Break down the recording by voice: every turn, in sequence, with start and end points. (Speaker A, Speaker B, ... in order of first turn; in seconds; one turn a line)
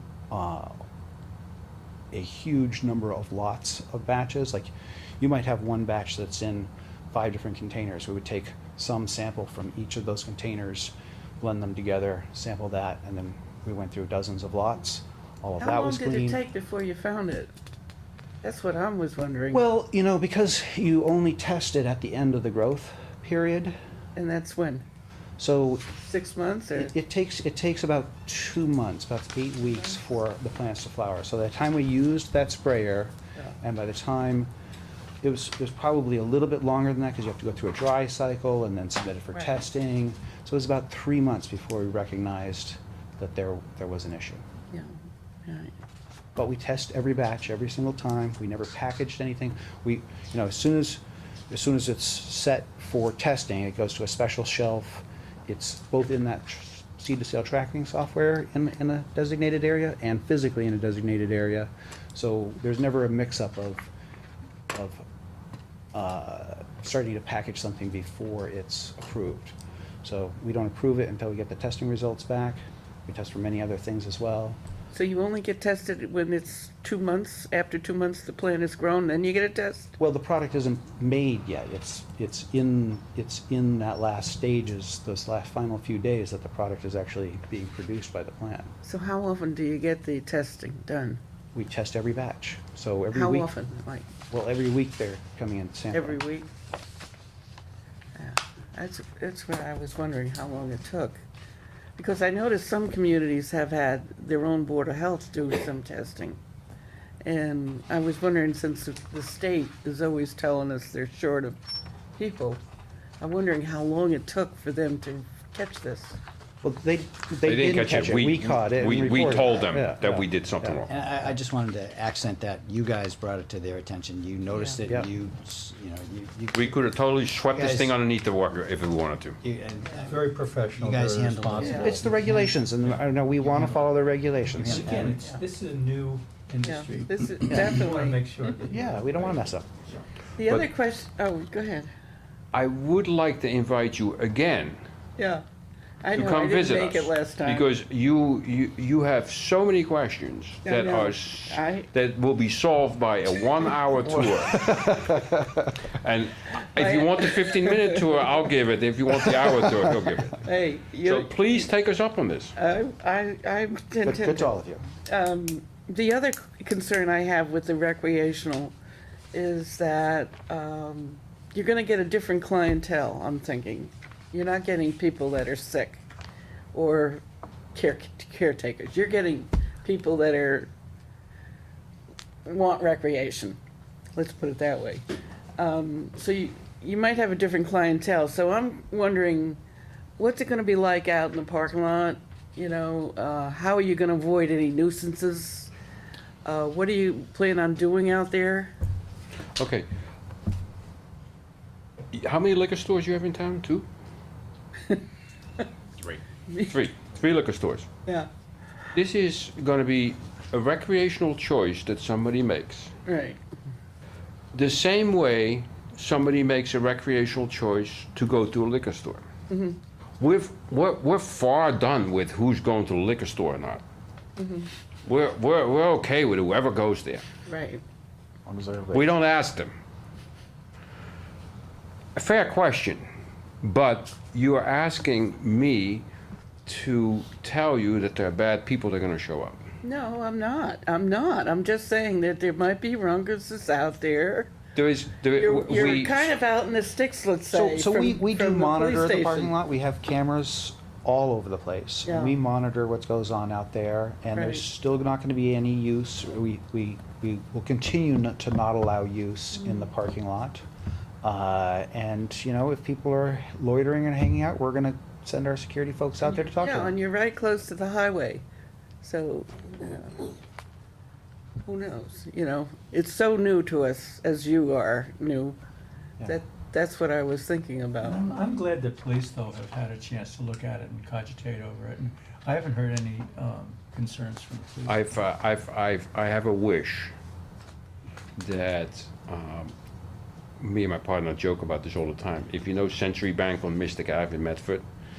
Speaker A: 0.3-0.8
Speaker A: 2.1-16.4
Speaker B: 15.6-17.5
Speaker B: 18.4-19.6
Speaker A: 19.5-23.8
Speaker B: 24.1-24.8
Speaker A: 25.4-25.9
Speaker B: 26.0-26.9
Speaker A: 26.7-34.5
Speaker A: 35.2-44.4
Speaker B: 44.7-45.7
Speaker A: 46.4-63.9
Speaker A: 64.7-65.0
Speaker A: 65.9-74.6
Speaker B: 74.9-80.0
Speaker A: 80.0-88.7
Speaker B: 88.8-91.2
Speaker A: 91.5-93.5
Speaker B: 93.1-94.1
Speaker A: 94.3-96.2
Speaker B: 95.9-96.5
Speaker B: 98.2-101.2
Speaker B: 102.0-106.4
Speaker B: 107.2-111.6
Speaker B: 112.2-112.6
Speaker B: 113.2-116.2
Speaker A: 116.6-120.9
Speaker C: 117.4-120.9
Speaker D: 120.9-126.8
Speaker B: 124.5-124.8
Speaker A: 124.8-125.1
Speaker C: 126.5-129.4
Speaker D: 127.5-127.9
Speaker D: 129.4-132.5
Speaker E: 130.0-133.9
Speaker B: 131.6-131.9
Speaker A: 131.7-135.1
Speaker E: 134.5-140.0
Speaker D: 134.6-135.2
Speaker B: 136.6-138.2
Speaker A: 138.6-139.7
Speaker B: 140.4-141.9
Speaker C: 142.5-144.8
Speaker B: 145.2-145.4
Speaker B: 146.0-147.7
Speaker C: 146.1-155.0
Speaker B: 150.6-151.9
Speaker A: 154.1-155.7
Speaker C: 155.9-160.4
Speaker B: 156.8-158.3
Speaker A: 159.3-159.7
Speaker B: 160.4-161.7
Speaker C: 161.0-162.5
Speaker B: 162.6-164.5
Speaker A: 164.0-164.8
Speaker B: 165.1-168.7
Speaker B: 169.3-176.0
Speaker B: 176.7-180.7
Speaker B: 182.4-183.6
Speaker B: 184.1-185.0
Speaker B: 185.6-189.6
Speaker B: 190.2-195.7
Speaker B: 196.4-198.7
Speaker C: 199.6-199.9
Speaker C: 202.1-203.9
Speaker C: 206.0-207.9
Speaker B: 206.5-206.8
Speaker C: 208.9-212.9
Speaker B: 213.1-213.4
Speaker C: 214.5-219.2
Speaker B: 219.5-219.8
Speaker C: 220.2-223.8
Speaker B: 224.4-224.7
Speaker C: 225.0-227.2
Speaker B: 227.5-227.8
Speaker A: 228.4-229.1
Speaker C: 228.9-229.7
Speaker C: 232.1-233.1
Speaker C: 233.6-236.1
Speaker C: 236.7-239.6
Speaker B: 239.8-244.5
Speaker C: 244.7-246.3
Speaker B: 245.3-249.5
Speaker A: 247.5-260.6
Speaker B: 252.0-252.3
Speaker B: 254.3-254.6
Speaker A: 261.2-266.9
Speaker B: 266.2-268.4
Speaker B: 269.0-270.3
Speaker B: 271.6-275.6
Speaker B: 276.2-278.3
Speaker E: 278.0-285.2
Speaker C: 284.9-287.1
Speaker C: 288.4-289.7
Speaker C: 290.6-294.8